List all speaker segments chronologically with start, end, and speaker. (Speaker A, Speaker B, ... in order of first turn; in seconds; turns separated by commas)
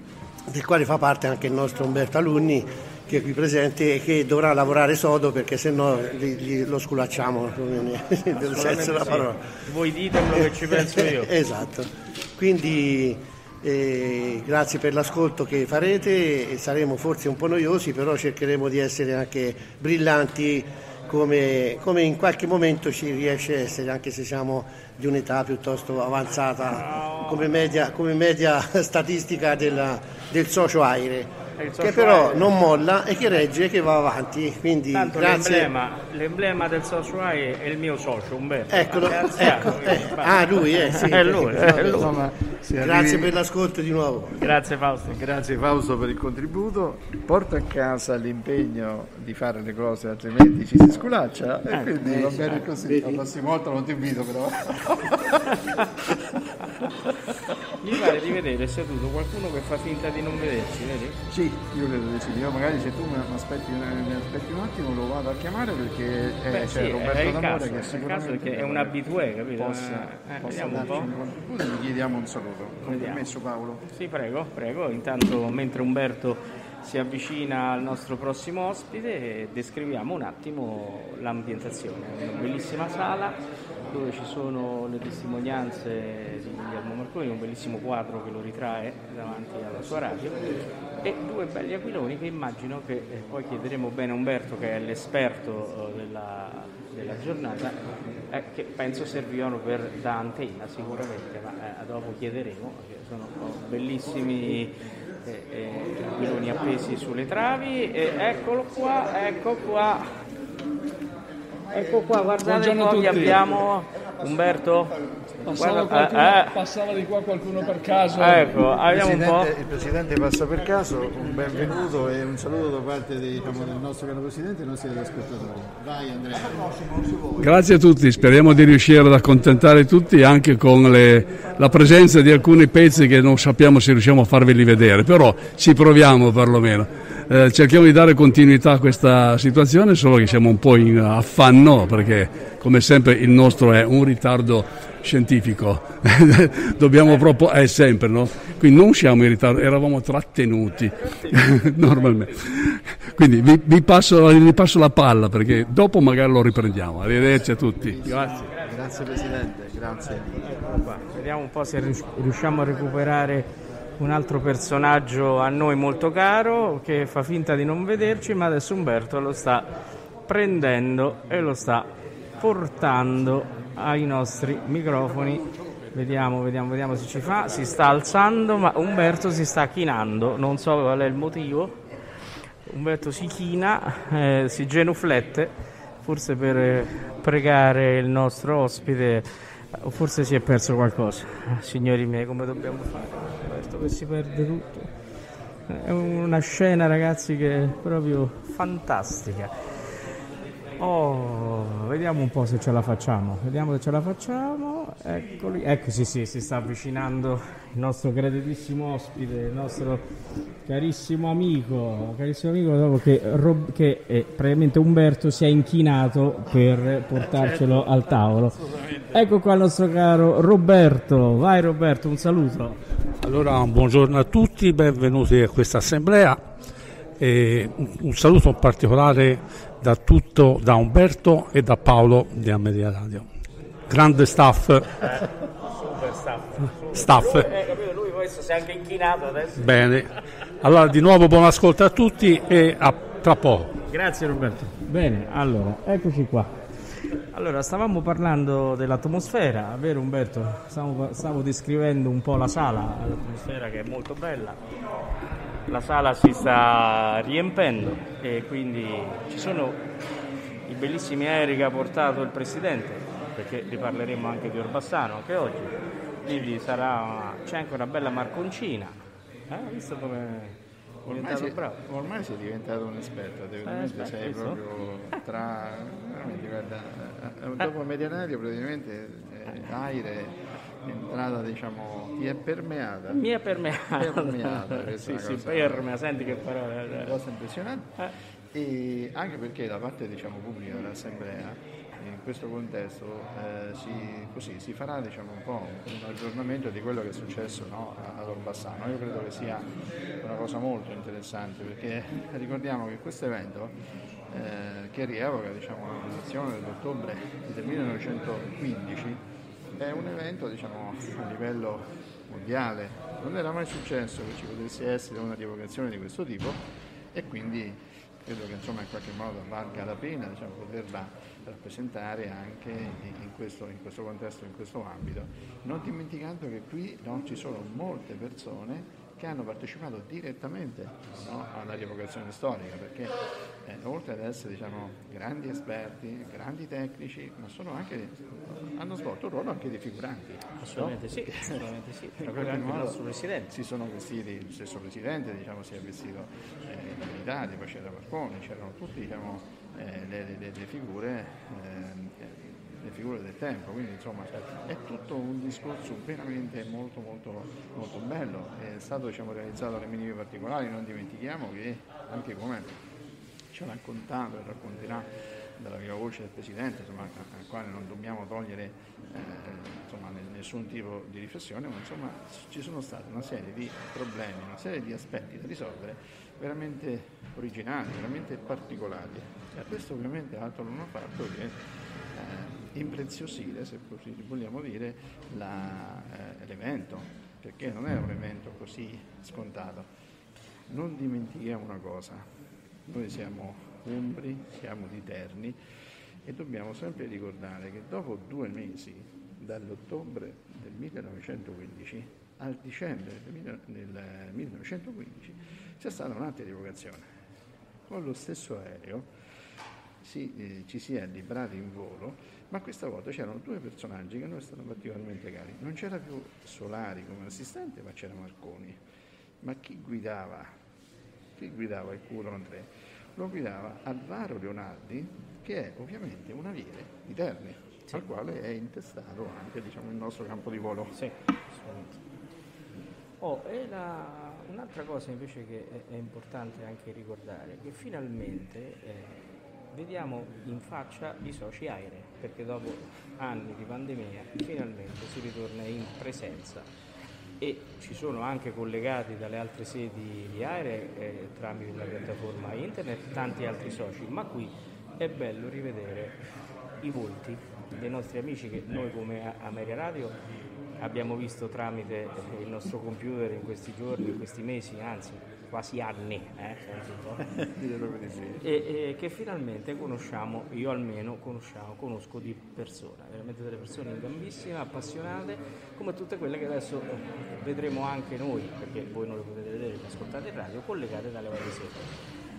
Speaker A: 0.5-9.5, Speaker B: 8.4-11.3, Speaker A: 10.3-35.7, Speaker B: 26.7-27.5, Speaker B: 31.6-32.5, Speaker B: 34.9-42.1, Speaker A: 38.7-42.2, Speaker C: 41.3-43.4, Speaker A: 42.8-44.4, Speaker B: 44.4-45.2, Speaker C: 45.0-55.4, Speaker B: 51.7-52.7, Speaker A: 52.9-53.2, Speaker B: 55.5-55.9, Speaker B: 57.8-61.2, Speaker C: 61.3-73.8, Speaker B: 66.5-71.1, Speaker B: 72.8-73.3, Speaker B: 73.9-110.1, Speaker B: 111.7-115.0, Speaker D: 112.4-113.5, Speaker D: 115.4-118.6, Speaker B: 115.5-116.6, Speaker B: 118.2-119.5, Speaker C: 118.9-121.7, Speaker D: 127.4-158.0, Speaker C: 157.8-160.7, Speaker B: 158.0-159.2, Speaker B: 160.4-169.7, Speaker B: 170.3-181.9, Speaker B: 182.7-194.9, Speaker B: 195.7-199.6, Speaker B: 200.8-210.1, Speaker B: 210.7-218.6, Speaker C: 217.2-219.3, Speaker B: 219.1-222.8, Speaker E: 223.2-226.4, Speaker E: 227.2-233.3, Speaker E: 233.9-234.9, Speaker B: 235.0-239.7, Speaker E: 236.9-237.5, Speaker E: 239.6-243.7, Speaker B: 243.9-254.6, Speaker B: 255.7-259.8, Speaker B: 260.7-271.8, Speaker C: 271.1-283.2, Speaker B: 273.6-274.6, Speaker B: 283.1-287.2, Speaker C: 284.0-287.9, Speaker C: 288.5-303.8, Speaker C: 304.3-309.2, Speaker C: 309.8-316.6, Speaker C: 317.1-362.8, Speaker B: 340.6-343.5, Speaker C: 363.5-381.6, Speaker C: 382.1-389.9, Speaker C: 390.7-392.2, Speaker C: 392.9-395.6, Speaker C: 396.2-407.1, Speaker C: 407.9-409.1, Speaker C: 410.0-418.8, Speaker C: 419.4-420.5, Speaker C: 421.4-430.9, Speaker B: 430.9-432.0, Speaker B: 433.2-446.7, Speaker B: 447.4-456.2, Speaker B: 456.8-460.2, Speaker B: 460.8-467.2, Speaker C: 467.2-468.4, Speaker B: 468.4-481.9